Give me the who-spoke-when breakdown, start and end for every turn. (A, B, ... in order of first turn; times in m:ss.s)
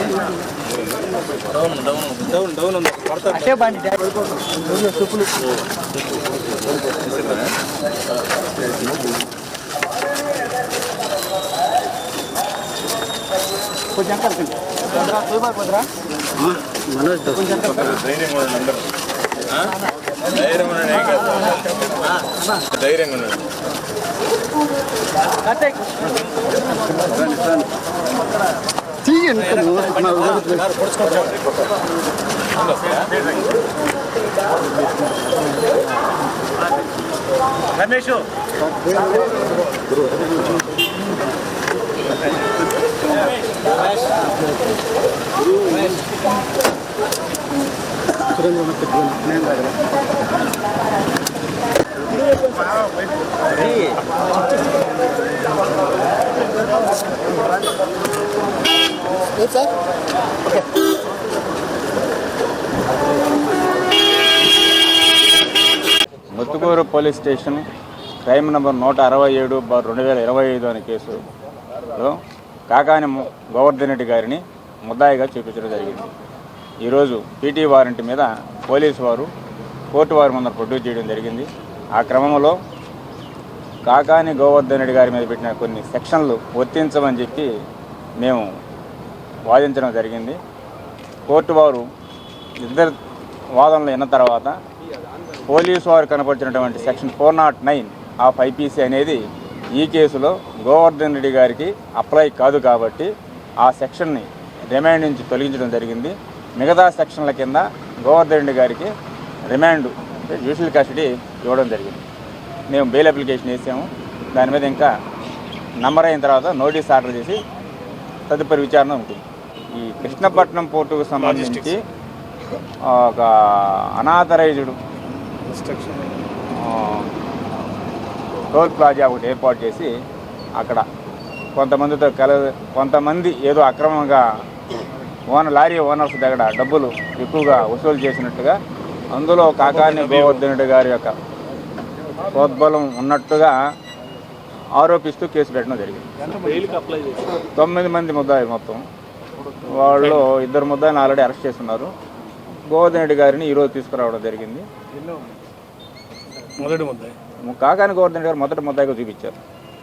0:01.5-0:03.9 A
0:14.1-0:14.3 A
0:15.1-0:15.7 A
0:16.5-0:18.8 A
0:20.3-0:21.4 A
0:22.7-0:23.4 A
0:27.1-0:27.6 A
0:29.1-0:31.3 A
0:39.0-0:39.2 A
0:48.4-0:49.7 A
0:53.6-0:53.8 A
1:06.3-1:07.6 B
1:08.2-1:11.2 B
1:11.9-1:12.2 B
1:12.7-1:16.1 B
1:16.8-1:19.3 B
1:19.9-1:22.6 B
1:23.8-1:27.5 B
1:28.2-1:28.5 B
1:29.5-1:30.4 B
1:31.3-1:31.8 B
1:32.6-1:32.9 B
1:33.5-1:34.6 B
1:35.4-1:39.2 B
1:39.7-1:43.1 B
1:43.6-1:48.9 B
1:49.5-1:52.0 B
1:52.7-1:54.9 B
1:55.8-1:57.4 B
1:58.3-2:01.8 B
2:00.0-2:00.3 C
2:01.2-2:01.7 C
2:02.8-2:04.8 B
2:05.4-2:06.2 C
2:06.5-2:07.1 B
2:08.5-2:09.9 B
2:10.6-2:10.8 B
2:11.5-2:14.3 B
2:15.3-2:18.6 B
2:19.1-2:21.1 B
2:19.7-2:20.4 C
2:22.3-2:23.6 B
2:24.8-2:26.0 B
2:26.2-2:27.4 C
2:27.5-2:28.8 B
2:29.5-2:30.2 C
2:29.6-2:31.9 B
2:32.7-2:34.6 B
2:34.9-2:35.3 C
2:36.6-2:37.1 C
2:37.4-2:39.4 B